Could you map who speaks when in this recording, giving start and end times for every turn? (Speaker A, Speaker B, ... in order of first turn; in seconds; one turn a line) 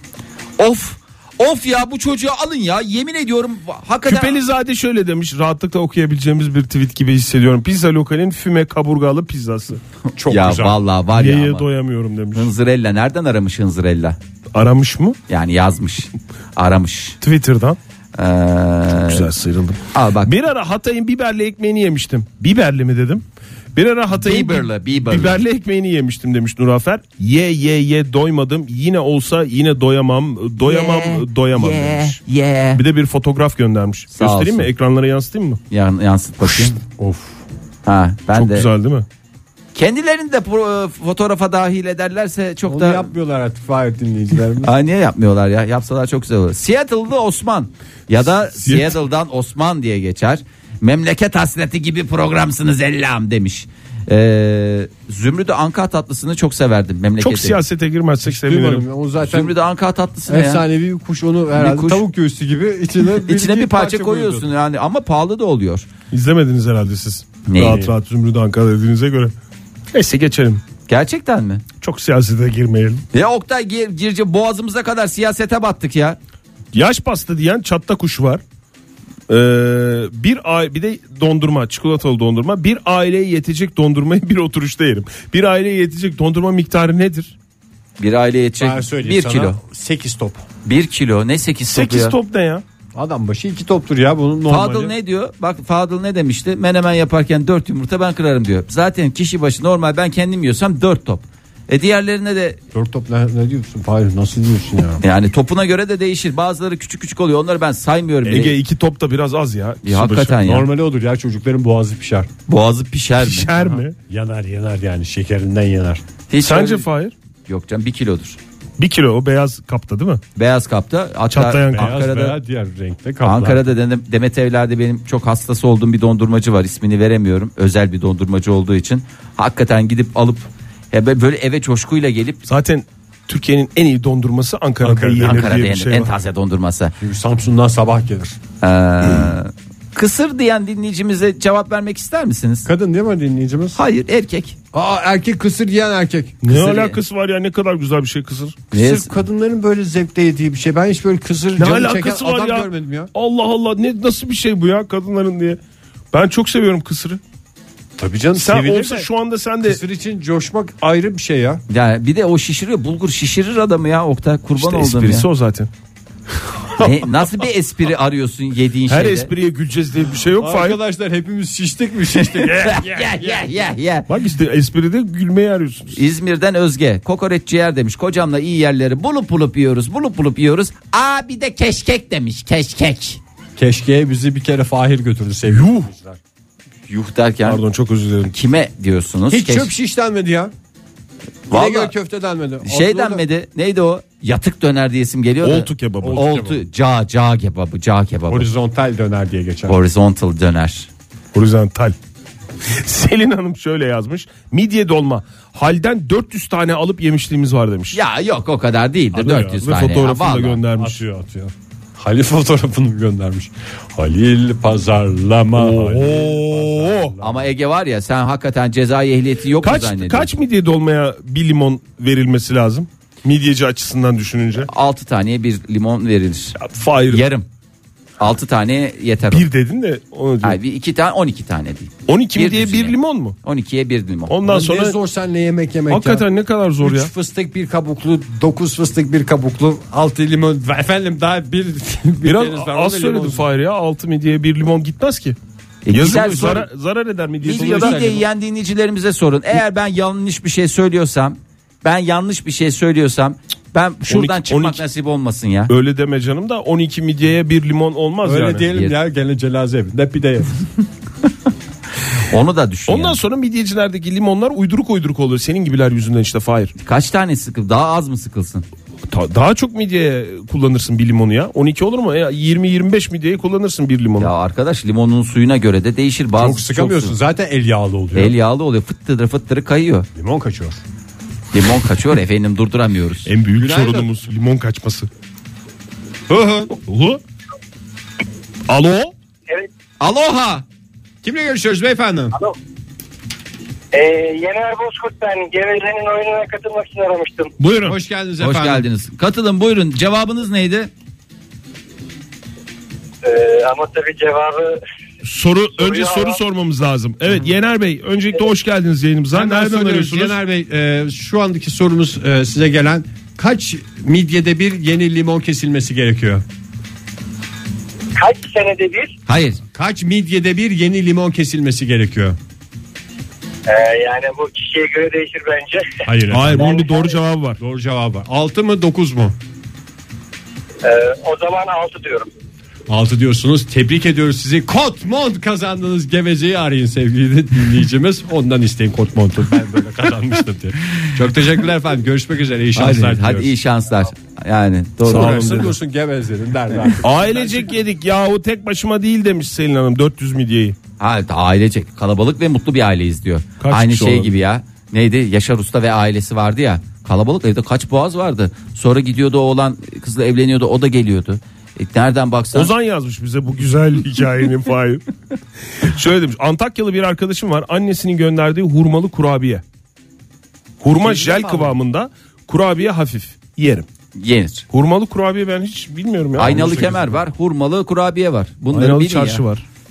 Speaker A: 0.6-4.4
Speaker B: 4.0-9.8
Speaker C: 10.1-10.8
Speaker A: 10.3-11.7
Speaker B: 11.2-12.5
Speaker A: 12.3-14.2
Speaker B: 14.5-15.2
Speaker A: 15.3-17.2
Speaker B: 17.2-17.8
Speaker A: 18.1-19.3
Speaker B: 18.9-23.2
Speaker A: 19.9-20.3
Speaker B: 23.7-32.2
Speaker A: 24.1-25.4
Speaker A: 30.6-32.8
Speaker B: 32.7-35.6
Speaker A: 34.1-34.7
Speaker A: 35.7-36.8
Speaker C: 36.8-37.4
Speaker A: 37.9-38.7
Speaker B: 38.3-39.0
Speaker A: 39.7-43.1
Speaker C: 42.6-44.7
Speaker A: 44.6-57.6
Speaker B: 48.6-48.9
Speaker B: 57.2-58.8
Speaker C: 58.2-59.5
Speaker A: 59.2-60.6
Speaker C: 60.3-64.5
Speaker A: 61.5-62.0
Speaker A: 63.2-65.9
Speaker B: 66.1-69.3
Speaker A: 67.5-67.9
Speaker C: 67.6-67.9
Speaker B: 69.9-70.6
Speaker A: 70.9-71.6
Speaker B: 71.8-73.0
Speaker A: 73.1-76.2
Speaker B: 76.7-78.4
Speaker B: 79.3-87.3
Speaker A: 88.0-89.6
Speaker C: 88.6-90.4
Speaker A: 90.6-92.2
Speaker B: 91.7-92.6
Speaker C: 92.9-94.9
Speaker A: 94.5-102.6
Speaker C: 102.7-105.0
Speaker A: 105.0-108.5
Speaker B: 108.2-110.4
Speaker A: 109.8-110.7
Speaker C: 110.4-112.3
Speaker A: 112.5-113.5
Speaker B: 113.2-114.0
Speaker C: 114.0-116.0
Speaker A: 116.3-116.8
Speaker B: 116.4-117.1
Speaker A: 117.5-118.4
Speaker B: 118.8-120.2
Speaker A: 120.3-122.4
Speaker B: 121.3-122.0
Speaker C: 121.7-123.7
Speaker A: 123.2-132.4
Speaker B: 132.5-136.1
Speaker C: 134.8-135.6
Speaker A: 135.2-136.9
Speaker C: 137.0-138.4
Speaker A: 138.6-142.7
Speaker C: 142.6-143.8
Speaker A: 143.7-144.6
Speaker C: 144.7-146.4
Speaker B: 146.4-148.6
Speaker A: 146.5-147.0
Speaker A: 148.7-149.1
Speaker C: 148.7-153.1
Speaker B: 151.6-155.6
Speaker B: 156.1-157.2
Speaker C: 158.0-159.1
Speaker B: 158.3-159.8
Speaker C: 159.6-161.6
Speaker A: 161.7-165.2
Speaker B: 164.6-165.7
Speaker A: 166.8-169.3
Speaker B: 168.9-170.8
Speaker C: 170.3-173.5
Speaker A: 172.1-174.1
Speaker B: 172.5-172.8
Speaker B: 174.1-176.0
Speaker A: 175.9-183.2
Speaker C: 183.6-186.2
Speaker B: 185.5-185.9
Speaker A: 186.9-187.6
Speaker B: 187.4-188.3
Speaker A: 188.3-189.7
Speaker C: 189.3-190.5
Speaker A: 191.5-191.9
Speaker C: 191.5-193.2
Speaker A: 192.6-198.5
Speaker B: 195.4-196.2
Speaker C: 196.0-196.6
Speaker C: 198.3-199.8
Speaker A: 199.7-200.9
Speaker B: 201.3-201.9
Speaker B: 202.7-208.0
Speaker A: 207.9-210.6
Speaker B: 209.1-211.0
Speaker C: 210.7-217.5
Speaker B: 215.6-217.2
Speaker A: 217.2-220.3
Speaker B: 219.6-224.7
Speaker A: 224.6-226.6
Speaker B: 226.6-227.3
Speaker A: 227.1-227.4
Speaker A: 228.2-229.5
Speaker B: 229.3-230.6
Speaker A: 230.4-234.3
Speaker B: 232.1-233.3
Speaker B: 234.3-235.0
Speaker C: 234.4-236.3
Speaker B: 235.9-237.1
Speaker C: 236.8-243.5
Speaker B: 242.2-245.4
Speaker A: 245.8-246.7
Speaker B: 245.9-248.0
Speaker A: 247.4-255.7
Speaker C: 247.4-248.2
Speaker B: 254.1-254.8
Speaker B: 255.7-258.7
Speaker C: 258.2-260.6
Speaker A: 262.2-263.2
Speaker B: 262.9-266.7
Speaker A: 266.8-268.6
Speaker B: 269.1-274.3
Speaker A: 274.2-277.1
Speaker C: 276.4-278.3
Speaker A: 278.1-280.1
Speaker C: 280.1-280.8
Speaker A: 281.5-283.3
Speaker B: 283.2-285.1
Speaker C: 283.5-284.1
Speaker C: 286.3-286.8
Speaker B: 286.9-287.2
Speaker B: 288.7-289.1
Speaker A: 290.0-290.6
Speaker C: 291.2-292.3
Speaker D: 293.9-297.5
Speaker B: 297.6-298.0
Speaker C: 297.8-298.9
Speaker A: 298.4-300.9
Speaker D: 303.2-304.8
Speaker B: 305.2-310.4
Speaker D: 305.8-306.4
Speaker C: 309.3-316.4
Speaker D: 318.2-319.1
Speaker A: 319.3-319.6
Speaker C: 319.7-322.4
Speaker D: 323.7-326.0
Speaker C: 326.0-326.9
Speaker B: 326.3-327.6
Speaker D: 326.5-327.1
Speaker C: 327.6-329.4
Speaker D: 330.8-332.3
Speaker C: 332.9-343.5
Speaker A: 342.7-345.5
Speaker B: 345.0-345.7
Speaker C: 345.0-347.7
Speaker B: 347.0-350.8
Speaker A: 351.0-362.7
Speaker B: 353.6-354.4
Speaker B: 362.5-365.0
Speaker B: 365.8-369.6
Speaker B: 370.8-373.9
Speaker C: 370.9-371.8
Speaker A: 374.1-374.6
Speaker B: 374.7-376.6
Speaker C: 376.4-377.2
Speaker A: 376.4-379.4
Speaker B: 378.7-379.6